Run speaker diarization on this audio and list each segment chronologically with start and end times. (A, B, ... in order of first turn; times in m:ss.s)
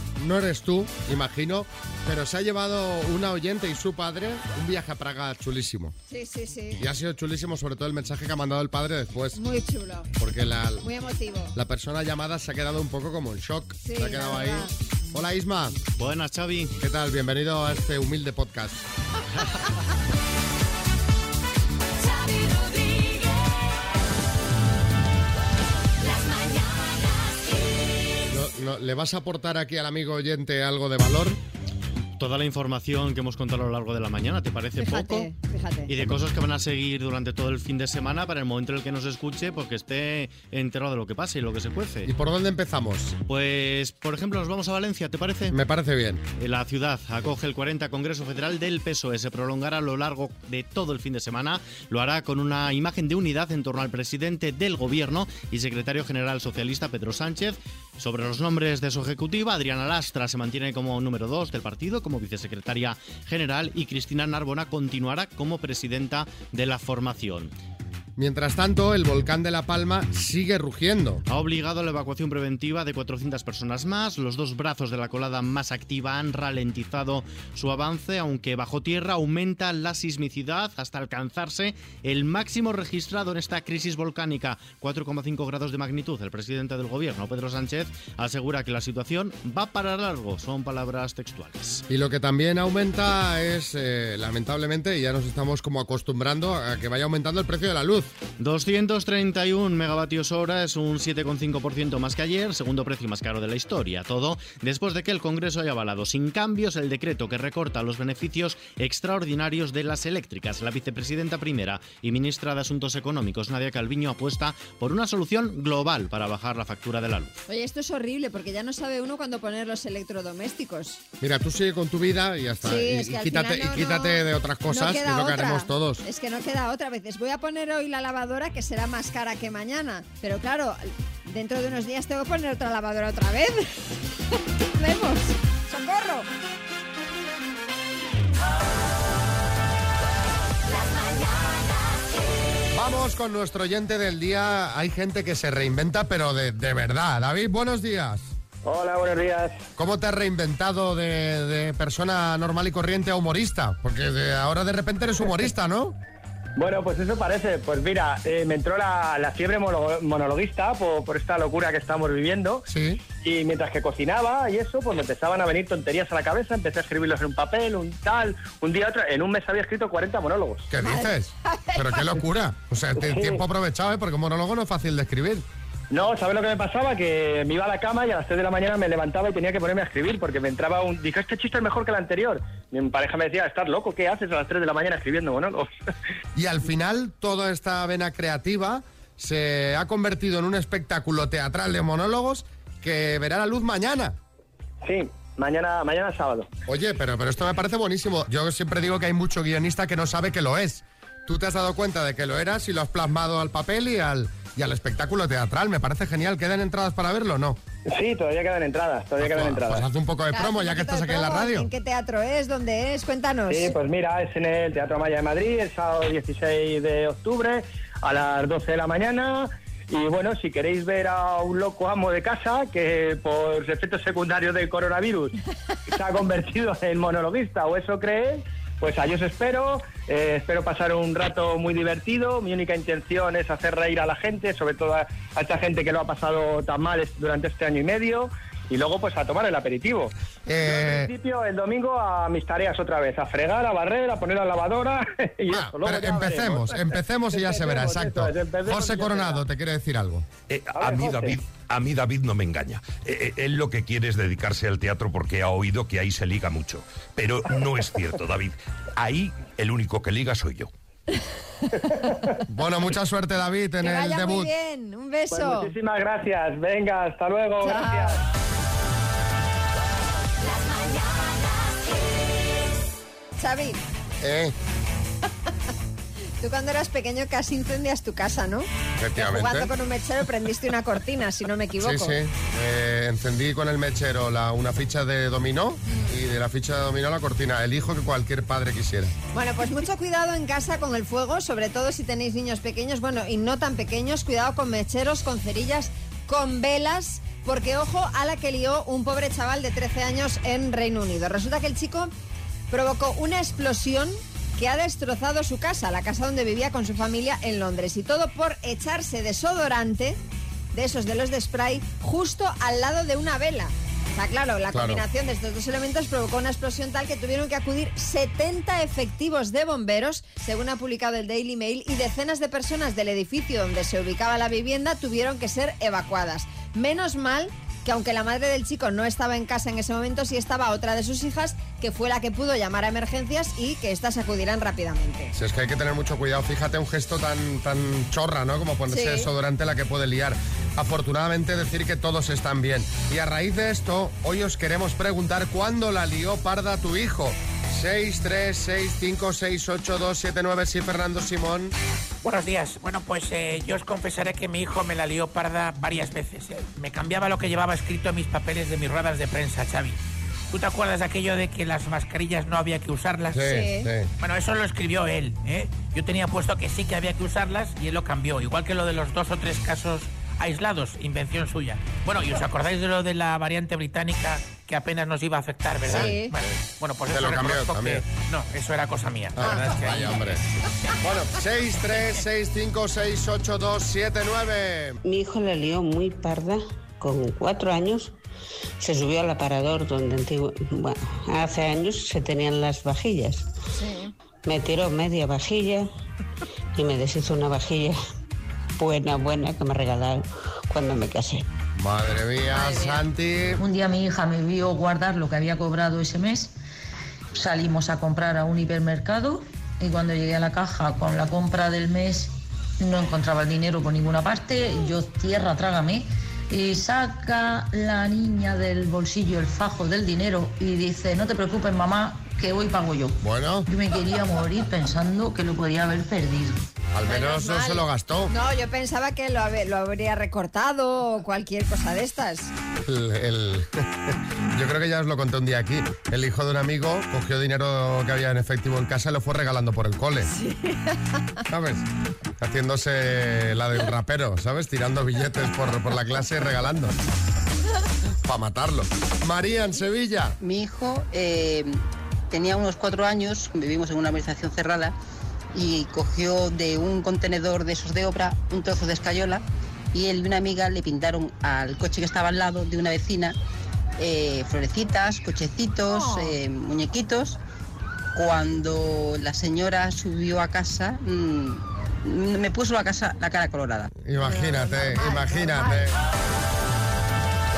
0:00.2-0:05.9 A
0:06.1-0:06.8 B
0:06.8-0:09.4 A
0:09.4-0:10.1 B
0:10.2-0:10.9 A
0:10.8-0:11.6 B
0:11.5-0:15.8 A
0:13.9-0:14.7 B
0:16.0-0:16.7 C
0:16.8-0:18.8 A
0:28.3-0:31.4 A
0:32.2-0:35.3 C
0:34.8-0:35.9 B
0:35.9-0:42.1 C
0:42.1-0:43.2 A
0:43.3-0:45.6 C
0:45.5-0:46.2 A
0:46.4-1:07.5 C
1:08.2-1:11.2 A
1:11.3-1:31.8 C
1:31.9-1:38.1 A
1:38.4-1:57.4 C
1:57.5-2:01.0 B
2:01.2-2:06.0 A
2:02.6-2:13.8 B
2:14.7-2:16.3 B
2:22.7-2:28.3 A
2:28.6-2:29.6 D
2:29.8-2:35.9 A
2:36.6-2:42.6 D
2:42.7-2:43.0 A
2:43.2-2:50.7 D
2:50.7-2:55.4 A
2:50.8-2:52.2 B
2:53.0-2:53.4 D
2:55.9-3:05.7 D
3:06.3-3:14.2 A
3:14.8-3:16.5 D
3:16.7-3:27.6 A
3:27.9-3:29.8 D
3:29.2-3:31.7 A
3:30.3-3:33.8 B
3:33.5-3:45.4 D
3:45.9-4:09.4 D
4:00.5-4:01.1 A
4:05.5-4:10.2 A
4:10.5-4:20.7 E
4:10.7-4:11.3 D
4:21.9-4:22.3 D
4:22.5-4:24.5 A
4:23.8-4:25.7 B
4:25.3-4:28.2 D
4:27.6-4:28.2 B
4:33.4-4:33.8 B
4:34.2-4:34.6 A
4:36.4-4:42.1 B
4:39.0-4:39.7 A
4:41.8-4:49.1 A
4:49.3-5:02.1 B
5:02.7-5:10.2 B
5:10.7-5:35.3 B
5:14.7-5:15.0 A
5:35.3-5:51.8 A
5:38.9-5:39.3 B
5:52.2-6:00.0 F
6:00.5-6:03.6 F
6:03.3-6:04.1 A
6:03.4-6:03.9 B
6:04.2-6:20.2 F
6:15.8-6:16.2 A
6:15.8-6:16.3 B
6:17.1-6:18.0 A
6:19.3-6:20.4 A
6:19.4-6:19.7 B
6:21.0-6:25.0 A
6:25.0-6:28.1 G
6:28.8-6:33.4 G
6:33.8-6:34.1 B
6:34.4-6:35.9 G
6:36.8-6:38.0 G
6:38.8-6:41.4 G
6:41.8-6:43.6 A
6:42.5-6:43.0 B
6:43.6-6:46.5 H
6:47.3-7:06.6 H
7:03.2-7:03.7 A
7:06.9-7:08.3 A
7:07.0-7:12.5 B
7:12.8-7:20.3 A
7:20.3-7:21.2 B
7:21.5-7:21.8 A
7:22.4-7:26.9 A
7:28.2-7:30.4 A
7:30.4-7:34.9 I
7:35.5-7:43.4 I
7:44.0-7:47.4 I
7:45.9-7:46.3 B
7:48.1-7:53.9 I
7:54.0-7:56.0 A
7:54.2-7:55.8 B